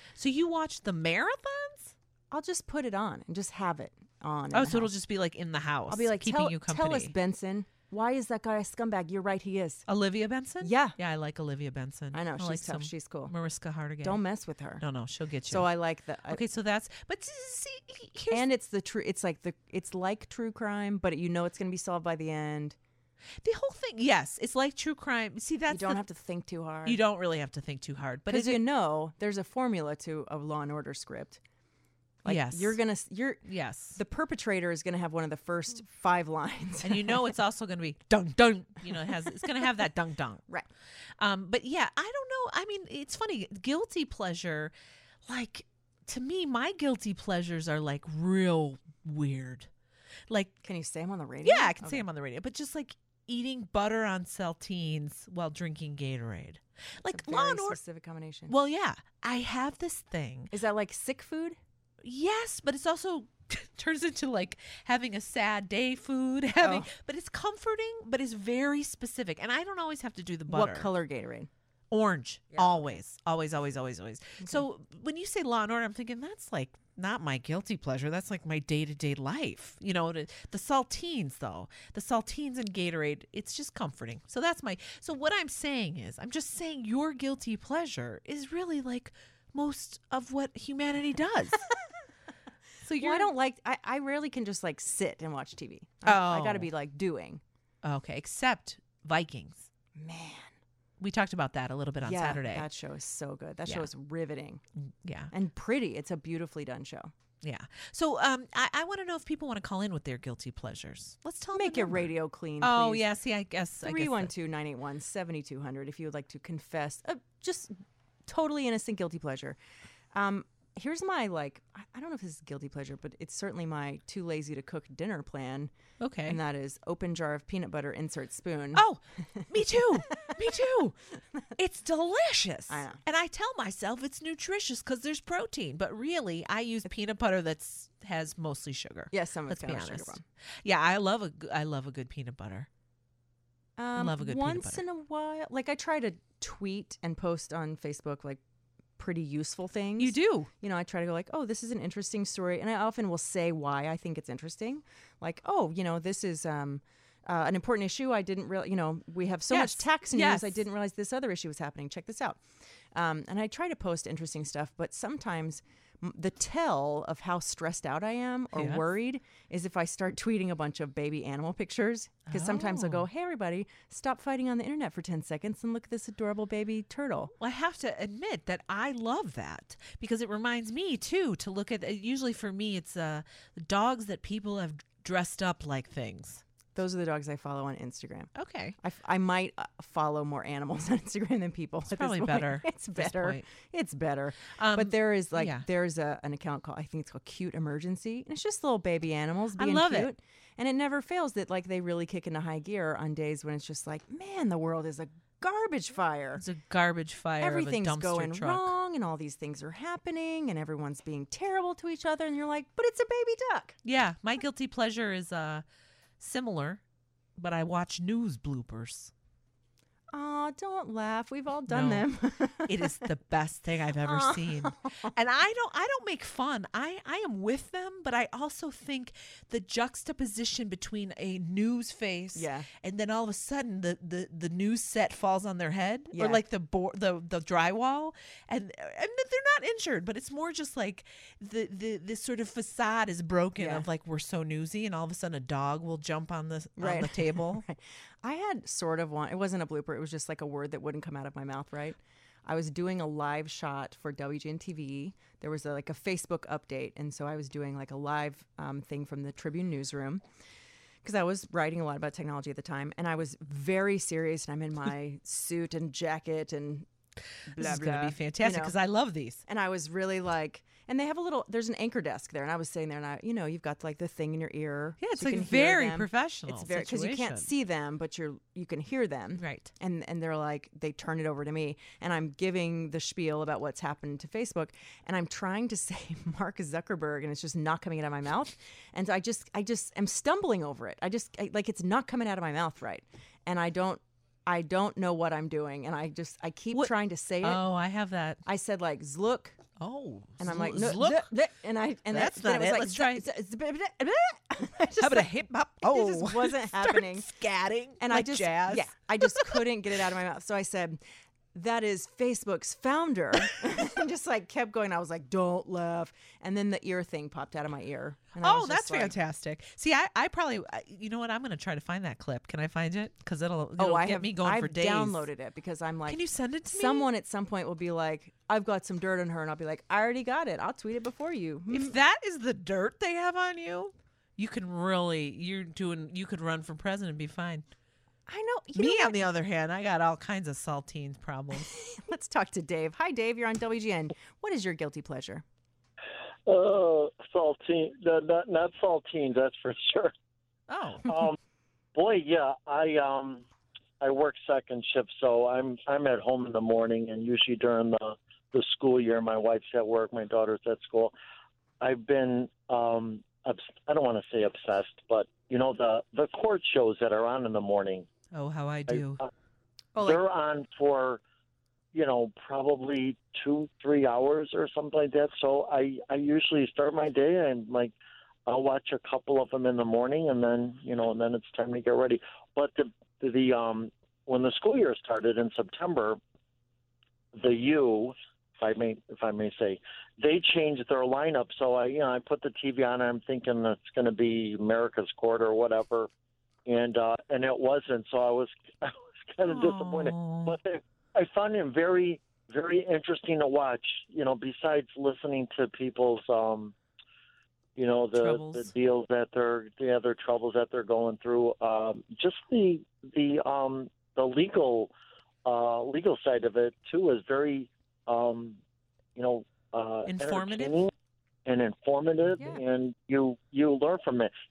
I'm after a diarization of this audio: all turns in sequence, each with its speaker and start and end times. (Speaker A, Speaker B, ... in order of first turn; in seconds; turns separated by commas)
Speaker A: 0.1-1.9, Speaker B: 2.3-4.9, Speaker A: 4.5-7.1, Speaker B: 5.9-9.8, Speaker A: 9.9-14.2, Speaker B: 10.6-10.9, Speaker B: 12.1-13.3, Speaker B: 14.0-14.8, Speaker A: 14.8-15.7, Speaker B: 15.5-16.4, Speaker A: 16.3-18.5, Speaker B: 18.3-22.8, Speaker A: 23.4-26.0, Speaker B: 25.7-27.0, Speaker A: 26.8-28.6, Speaker B: 28.3-31.4, Speaker B: 32.2-33.4, Speaker A: 32.2-32.8, Speaker A: 33.4-34.0, Speaker B: 33.9-37.2, Speaker A: 36.8-40.5, Speaker A: 41.2-44.7, Speaker A: 45.2-49.7, Speaker A: 50.3-50.6, Speaker B: 50.6-52.0, Speaker A: 51.4-57.8, Speaker B: 57.1-58.5, Speaker A: 58.5-60.5, Speaker B: 60.5-61.6, Speaker A: 62.0-70.9, Speaker B: 66.6-66.9, Speaker B: 70.5-71.5, Speaker A: 71.9-91.7, Speaker A: 92.8-93.3, Speaker B: 93.0-97.4, Speaker A: 96.0-96.7, Speaker A: 97.8-99.7, Speaker B: 99.9-100.5, Speaker A: 101.0-102.7, Speaker B: 102.0-104.6, Speaker A: 104.8-105.3, Speaker B: 105.3-107.1, Speaker A: 107.4-114.3, Speaker B: 111.5-113.1, Speaker B: 113.8-117.7, Speaker B: 118.3-119.6, Speaker B: 120.1-125.7, Speaker A: 126.0-126.4, Speaker B: 126.2-128.8, Speaker A: 128.7-131.0, Speaker A: 131.6-142.7, Speaker B: 132.7-133.0, Speaker B: 139.1-140.2, Speaker B: 143.8-148.4, Speaker A: 143.9-144.8, Speaker B: 149.0-162.4, Speaker A: 150.0-150.5, Speaker A: 159.5-160.6, Speaker B: 162.9-177.3, Speaker A: 168.5-168.8, Speaker A: 172.3-173.1, Speaker A: 177.4-186.4, Speaker B: 186.7-206.4, Speaker A: 188.3-188.8, Speaker A: 191.9-193.4, Speaker A: 194.5-195.7, Speaker A: 199.6-200.1, Speaker A: 206.3-208.8, Speaker B: 207.4-213.7, Speaker A: 213.8-215.6, Speaker A: 216.2-216.8, Speaker A: 217.4-219.1, Speaker B: 220.1-223.1, Speaker A: 221.7-222.1, Speaker A: 222.6-247.7, Speaker B: 224.0-225.1, Speaker B: 232.3-232.7, Speaker B: 236.1-236.4, Speaker B: 243.6-243.8, Speaker B: 246.8-260.2, Speaker B: 261.0-266.9, Speaker B: 267.5-268.7, Speaker A: 267.5-269.4, Speaker B: 269.4-297.6, Speaker A: 275.0-277.5, Speaker A: 279.4-279.7, Speaker A: 296.7-298.4, Speaker B: 298.4-299.6, Speaker A: 299.8-301.3, Speaker B: 300.4-307.3, Speaker A: 302.1-303.3, Speaker A: 304.9-309.7, Speaker B: 308.0-311.0, Speaker B: 311.5-319.1, Speaker A: 318.4-325.3, Speaker B: 323.8-331.9, Speaker A: 326.1-327.1, Speaker A: 331.7-337.6, Speaker B: 338.3-339.2, Speaker A: 338.7-341.7, Speaker B: 341.9-345.4, Speaker C: 346.4-350.1, Speaker A: 350.7-351.2, Speaker C: 351.0-351.3, Speaker C: 351.9-353.4, Speaker C: 354.0-361.1, Speaker C: 361.8-368.1, Speaker A: 368.3-369.2, Speaker C: 368.9-369.3, Speaker B: 369.9-370.2, Speaker C: 370.0-371.2, Speaker C: 371.9-377.9, Speaker C: 378.4-386.2, Speaker C: 387.4-396.1, Speaker C: 396.6-406.7, Speaker A: 399.5-400.6, Speaker C: 407.8-414.9, Speaker A: 408.1-408.7, Speaker C: 415.4-418.6, Speaker C: 419.1-420.9, Speaker A: 420.0-420.8, Speaker C: 421.4-424.3